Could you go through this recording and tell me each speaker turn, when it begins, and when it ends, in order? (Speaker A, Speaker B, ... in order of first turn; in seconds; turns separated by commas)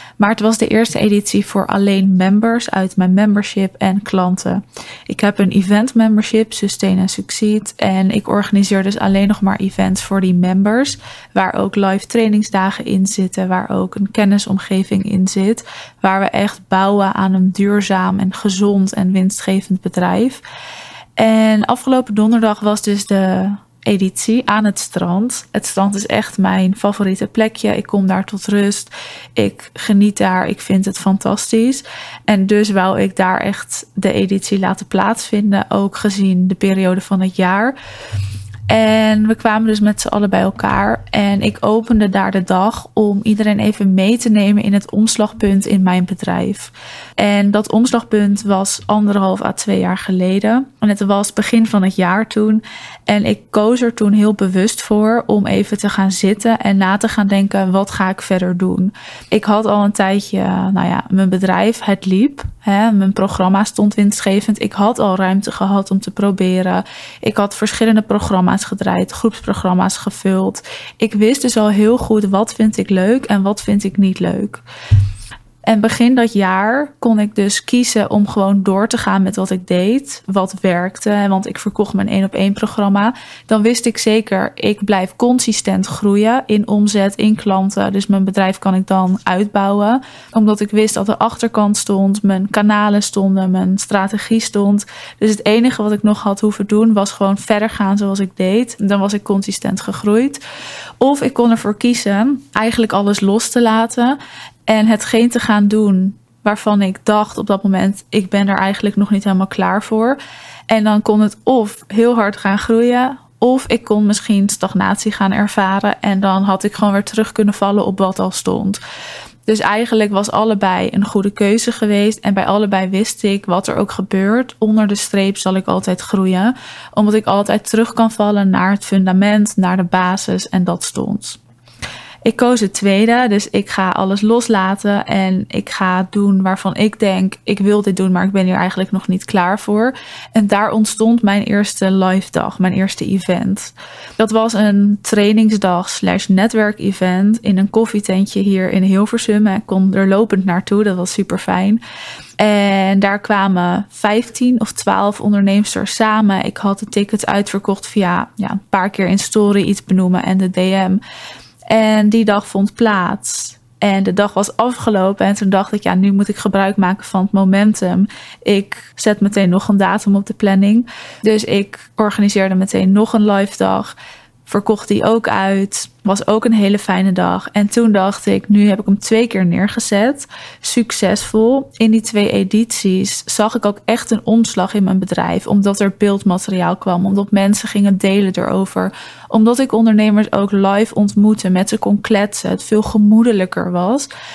Speaker A: 0.2-20.4, Speaker A: 21.2-37.7, Speaker A: 38.7-74.6, Speaker A: 75.6-100.4, Speaker A: 101.0-118.8, Speaker A: 119.5-131.4, Speaker A: 132.2-151.8, Speaker A: 152.4-161.0, Speaker A: 161.7-194.1